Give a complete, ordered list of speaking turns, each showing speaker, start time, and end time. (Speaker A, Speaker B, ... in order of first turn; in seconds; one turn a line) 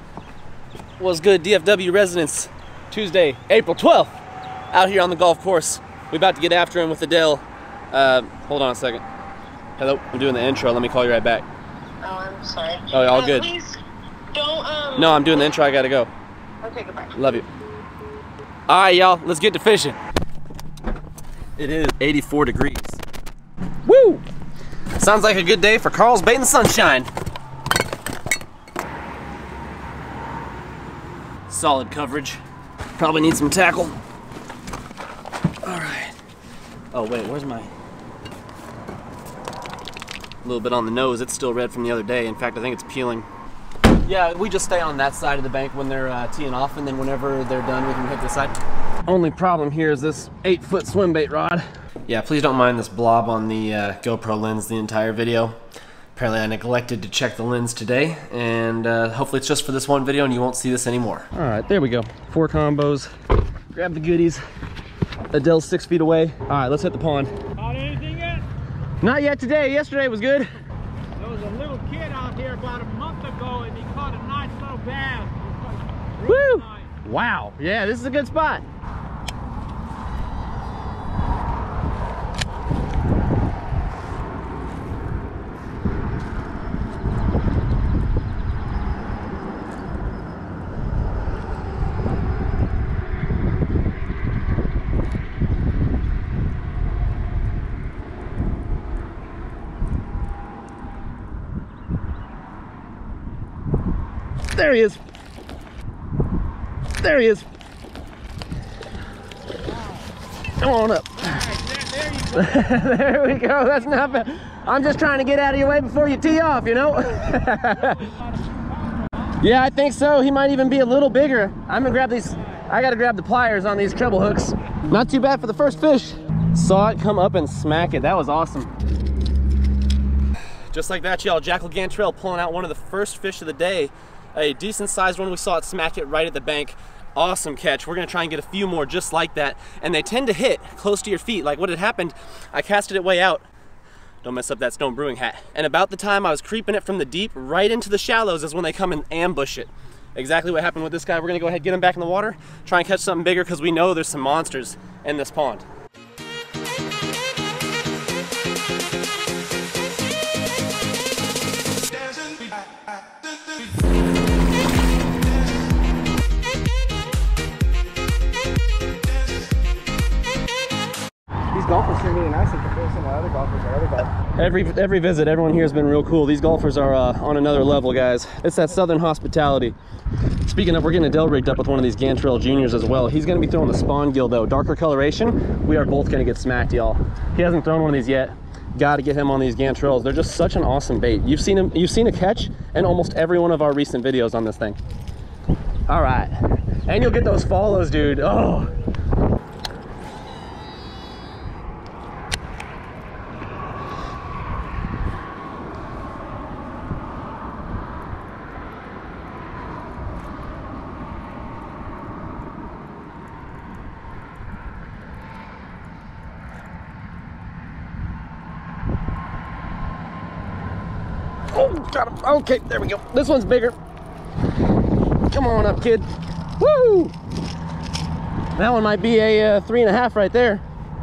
Speaker A: 1.0-4.1
Speaker A: 4.7-9.0
Speaker A: 9.8-11.5
Speaker B: 12.0-13.8
Speaker A: 12.9-13.5
Speaker B: 14.3-15.6
Speaker A: 15.0-16.1
Speaker B: 16.6-17.2
Speaker A: 17.1-17.5
Speaker A: 18.7-20.0
Speaker A: 21.6-23.0
Speaker A: 23.9-24.2
Speaker A: 25.0-27.1
Speaker A: 31.5-32.4
Speaker A: 33.0-34.0
Speaker A: 35.6-36.1
Speaker A: 36.9-37.7
Speaker A: 40.4-43.3
Speaker A: 44.0-48.5
Speaker A: 49.0-55.6
Speaker A: 56.1-63.1
Speaker A: 63.7-64.4
Speaker A: 65.3-67.3
Speaker C: 67.6-68.5
Speaker A: 69.0-70.5
Speaker C: 71.2-76.9
Speaker A: 76.2-78.6
Speaker A: 104.5-105.0
Speaker A: 107.0-107.5
Speaker A: 110.6-111.5
Speaker C: 111.5-112.3
Speaker A: 112.2-118.1
Speaker C: 117.5-119.3
Speaker A: 119.4-128.7
Speaker A: 130.7-143.5
Speaker A: 144.2-155.7
Speaker D: 162.1-163.5
Speaker D: 171.5-174.2
Speaker A: 174.3-179.8
Speaker A: 180.5-194.8
Speaker A: 195.9-198.7
Speaker A: 221.5-223.8
Speaker A: 225.3-227.1
Speaker A: 228.6-230.6